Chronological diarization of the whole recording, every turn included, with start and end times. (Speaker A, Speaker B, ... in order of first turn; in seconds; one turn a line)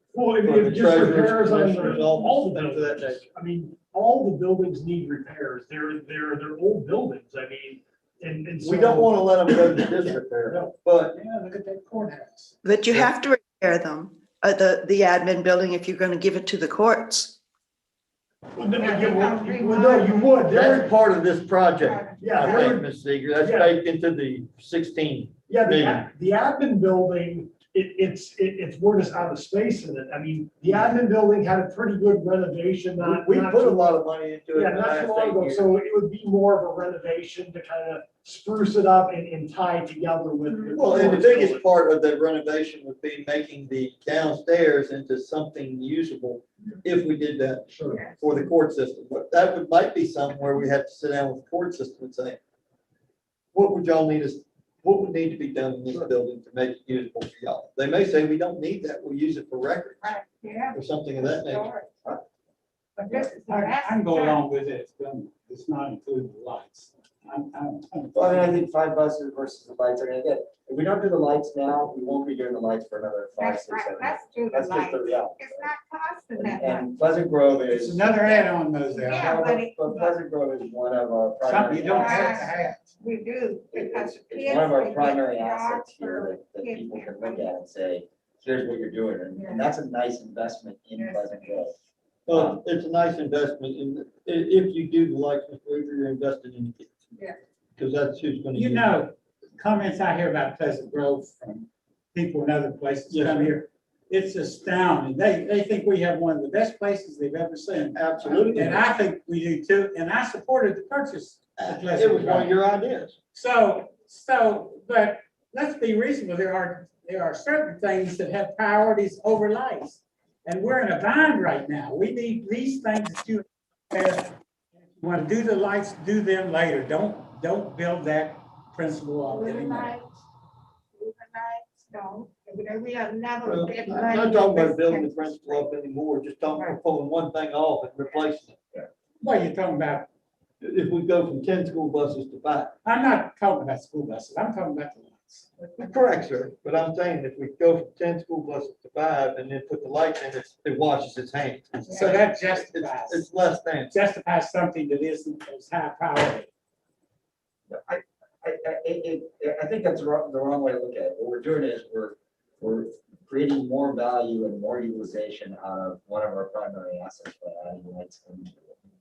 Speaker A: 0.1-10.7
Speaker B: 0.4-3.2
Speaker B: 8.6-11.2
Speaker C: 11.1-12.5
Speaker D: 12.6-17.4
Speaker A: 18.6-20.9
Speaker E: 18.7-20.4
Speaker B: 20.5-26.1
Speaker E: 21.8-22.8
Speaker A: 22.2-22.9
Speaker A: 23.4-23.8
Speaker A: 25.5-34.0
Speaker B: 33.0-35.7
Speaker A: 34.5-41.7
Speaker E: 40.5-41.0
Speaker B: 40.7-52.4
Speaker A: 47.7-48.0
Speaker E: 47.9-48.2
Speaker B: 53.5-60.1
Speaker E: 60.0-61.9
Speaker B: 60.7-61.7
Speaker C: 63.0-68.6
Speaker E: 63.0-64.4
Speaker F: 68.1-75.7
Speaker E: 73.4-76.9
Speaker F: 76.3-82.5
Speaker C: 77.7-79.4
Speaker E: 78.9-80.2
Speaker C: 81.4-82.9
Speaker E: 81.8-87.5
Speaker F: 83.7-91.7
Speaker E: 89.3-89.7
Speaker E: 91.0-91.7
Speaker B: 92.2-97.1
Speaker F: 92.3-92.6
Speaker B: 97.8-98.9
Speaker C: 98.5-112.5
Speaker B: 103.1-103.5
Speaker B: 107.9-108.8
Speaker B: 111.6-113.2
Speaker C: 113.3-124.3
Speaker C: 124.9-129.9
Speaker E: 129.3-130.1
Speaker E: 130.9-135.7
Speaker B: 133.4-138.6
Speaker E: 136.5-136.8
Speaker C: 139.2-140.1
Speaker B: 140.6-142.7
Speaker C: 142.8-145.5
Speaker B: 145.8-153.9
Speaker C: 151.7-153.2
Speaker E: 151.9-152.2
Speaker C: 153.9-156.5
Speaker F: 157.7-168.8